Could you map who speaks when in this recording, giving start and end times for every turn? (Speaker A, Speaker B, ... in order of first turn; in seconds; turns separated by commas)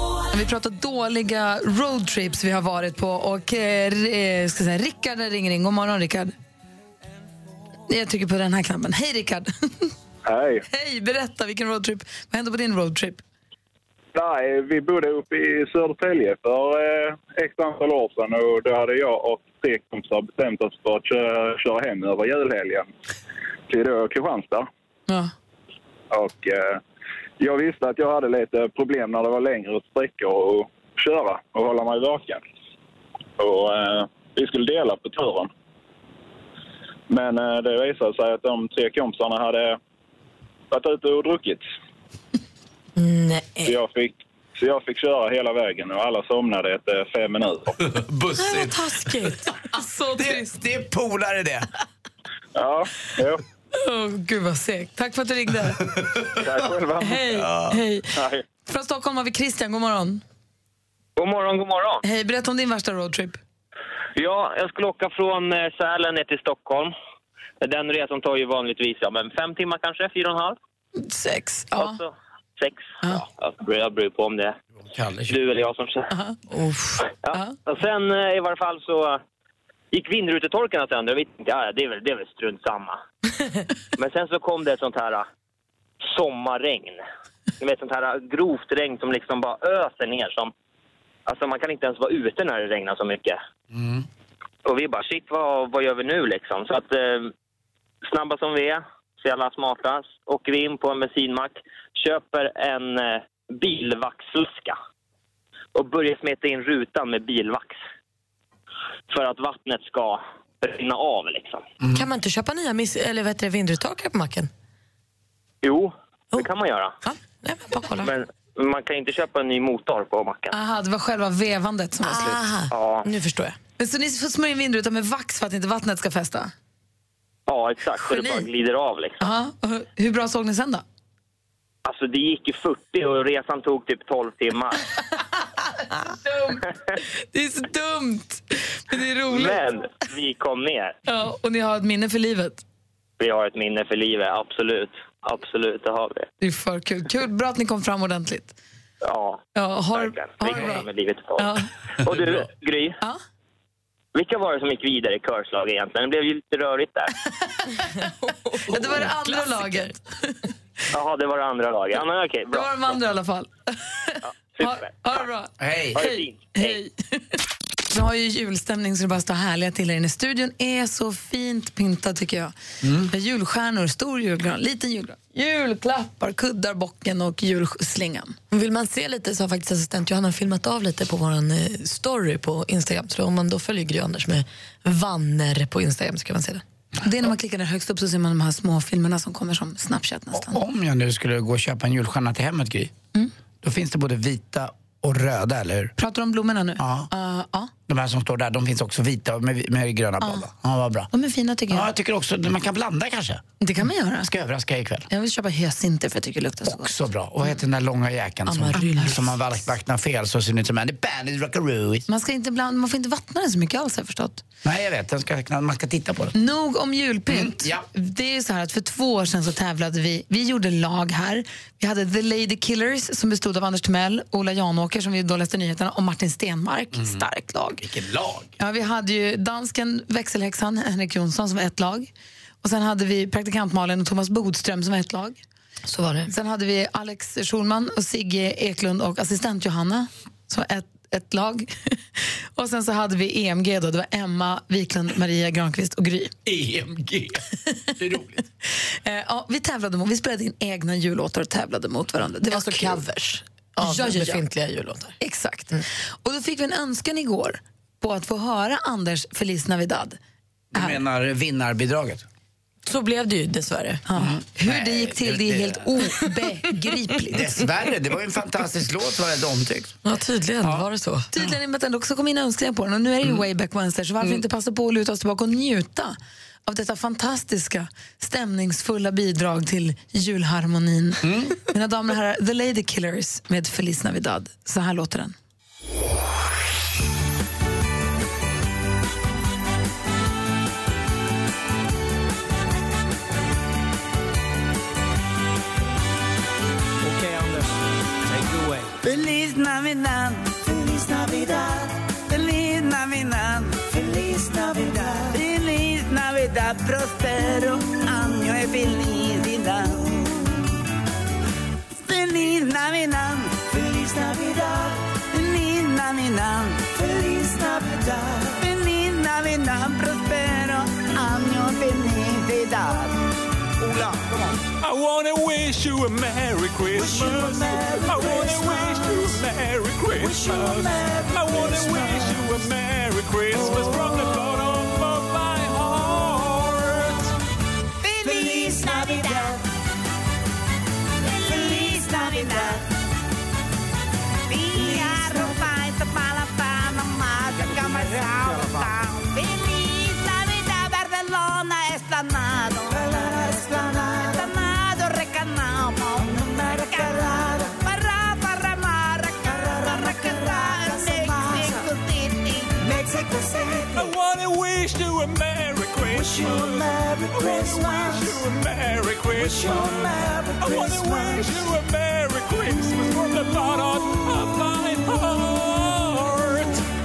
Speaker A: 0.3-6.3, Speaker A: 7.9-9.9, Speaker B: 10.2-10.7, Speaker A: 10.7-13.2, Speaker B: 14.1-22.9, Speaker B: 23.7-24.7, Speaker B: 26.1-26.8, Speaker B: 27.4-32.4, Speaker B: 33.4-35.5, Speaker B: 37.1-39.8, Speaker B: 40.7-41.6, Speaker C: 43.0-43.7, Speaker B: 43.6-47.8, Speaker C: 48.4-49.5, Speaker A: 49.7-50.5, Speaker D: 50.2-51.7, Speaker B: 52.5-53.4, Speaker A: 53.7-55.8, Speaker B: 56.4-57.3, Speaker A: 57.0-58.1, Speaker A: 58.7-60.2, Speaker E: 61.2-62.0, Speaker A: 62.0-63.4, Speaker E: 64.2-66.9, Speaker E: 67.6-70.6, Speaker A: 71.0-72.0, Speaker E: 71.8-74.5, Speaker D: 74.8-75.4, Speaker E: 75.3-76.1, Speaker C: 76.5-77.0, Speaker E: 77.2-79.2, Speaker E: 79.9-83.0, Speaker E: 84.0-85.3, Speaker E: 86.1-87.0, Speaker E: 87.6-90.5, Speaker E: 91.3-93.4, Speaker D: 93.7-94.0, Speaker E: 94.7-97.3, Speaker E: 98.1-104.8, Speaker E: 105.8-107.8, Speaker E: 109.1-111.6, Speaker C: 111.9-114.5, Speaker E: 115.6-117.0, Speaker C: 117.0-118.1, Speaker E: 118.0-120.5, Speaker A: 120.5-122.4, Speaker C: 122.0-123.6, Speaker E: 122.7-123.0, Speaker A: 123.8-126.5, Speaker E: 127.5-129.3, Speaker A: 128.1-128.4, Speaker A: 129.2-130.8, Speaker E: 131.8-134.9, Speaker A: 136.2-139.6, Speaker E: 139.3-141.0, Speaker A: 141.1-142.6, Speaker E: 143.2-146.3, Speaker A: 146.4-148.6, Speaker E: 149.0-149.4, Speaker A: 149.6-150.9, Speaker E: 149.9-153.0, Speaker A: 151.4-151.7, Speaker E: 154.2-157.1, Speaker C: 157.9-159.9, Speaker A: 158.7-160.0, Speaker E: 160.9-162.7, Speaker A: 162.5-166.9, Speaker E: 164.6-165.2, Speaker D: 165.6-166.0, Speaker E: 165.9-166.8, Speaker A: 167.9-172.5, Speaker D: 172.8-173.1, Speaker A: 173.1-178.4, Speaker C: 178.5-186.6, Speaker A: 187.0-190.6, Speaker D: 190.3-192.9, Speaker D: 193.6-195.9, Speaker A: 196.0-197.7, Speaker D: 196.8-197.1, Speaker D: 197.9-201.1, Speaker A: 201.1-201.9, Speaker D: 201.7-203.4, Speaker A: 203.6-204.3, Speaker D: 204.2-205.1, Speaker A: 205.1-206.9, Speaker D: 206.7-212.1, Speaker C: 208.5-209.2, Speaker A: 208.8-209.1, Speaker A: 212.1-214.4, Speaker D: 214.6-216.4, Speaker A: 216.4-227.8, Speaker D: 217.3-217.8, Speaker D: 226.9-227.2, Speaker D: 227.8-228.5, Speaker A: 228.6-232.1, Speaker A: 232.6-235.4, Speaker C: 235.9-236.3, Speaker A: 236.3-246.3, Speaker D: 246.5-247.4, Speaker D: 248.0-248.4, Speaker A: 248.9-253.0, Speaker C: 252.5-255.2, Speaker A: 253.8-254.4, Speaker A: 255.2-260.2, Speaker D: 260.7-262.2, Speaker C: 262.9-264.0, Speaker A: 264.1-267.5, Speaker D: 264.2-265.9, Speaker D: 267.3-270.0, Speaker C: 270.0-271.3, Speaker A: 271.3-285.4, Speaker D: 281.2-281.6, Speaker F: 299.0-310.5, Speaker F: 312.0-323.2, Speaker F: 323.8-324.6, Speaker G: 324.8-337.3, Speaker F: 326.9-329.3, Speaker F: 330.2-332.4, Speaker F: 338.0-339.6, Speaker F: 341.2-342.9, Speaker F: 344.5-364.1, Speaker G: 363.8-376.8, Speaker F: 366.2-368.4, Speaker F: 369.4-371.6